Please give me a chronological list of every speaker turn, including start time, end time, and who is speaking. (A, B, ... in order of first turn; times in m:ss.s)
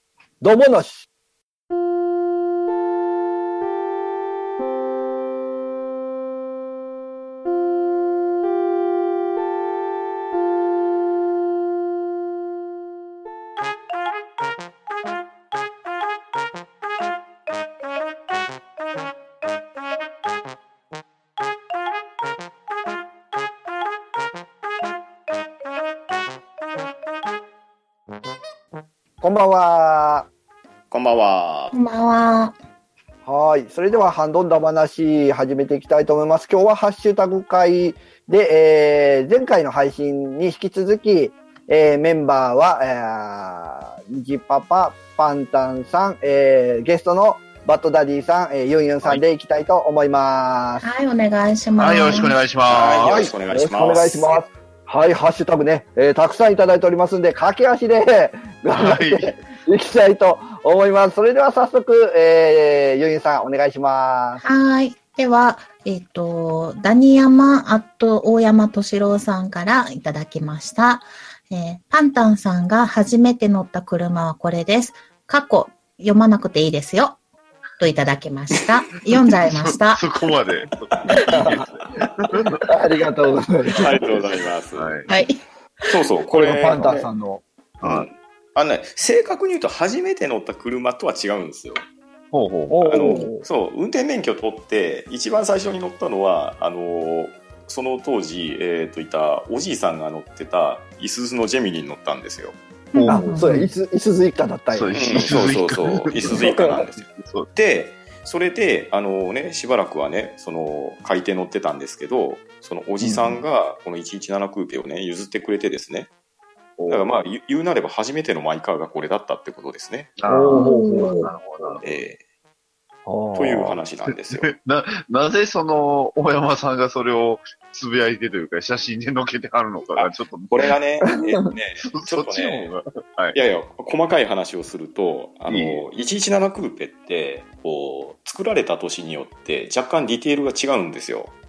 0:00.4-0:01.1 A
0:29.2-0:30.3 A
0:30.9-0:31.8 B
0:31.7-0:32.6 C
0:33.2-0:50.9 A
0:50.8-0:52.4 C
0:51.8-0:53.3 D
0:52.7-0:54.4 B
0:53.1-1:04.4 A
0:58.8-0:59.3 D
1:04.4-1:17.2 C
1:17.8-1:20.0 C
1:19.2-1:22.7 D
1:21.0-1:22.2 B
1:22.7-1:24.3 A
1:23.8-1:25.0 B
1:24.8-1:25.1 D
1:25.1-1:25.4 C
1:25.9-1:27.1 B
1:26.3-1:27.4 A
1:26.7-1:27.0 D
1:27.8-1:28.1 D
1:27.8-1:31.8 B
1:32.3-1:33.2 D
1:32.7-1:33.5 A
1:32.8-1:42.6 B
1:42.9-1:43.7 C
1:43.0-1:43.5 D
1:43.0-1:45.3 A
1:44.7-1:47.5 D
1:44.9-1:56.1 B
1:46.2-1:46.8 A
1:53.0-1:53.4 A
1:56.8-1:57.1 D
1:56.9-2:00.1 B
2:00.2-2:01.9 D
2:00.3-2:01.8 A
2:00.5-2:01.3 C
2:01.8-2:02.2 B
2:03.1-2:03.8 A
2:03.4-2:04.5 B
2:04.1-2:10.6 D
2:10.0-2:12.7 B
2:11.2-2:11.5 A
2:11.8-2:13.4 D
2:13.3-2:21.4 B
2:15.5-2:15.8 D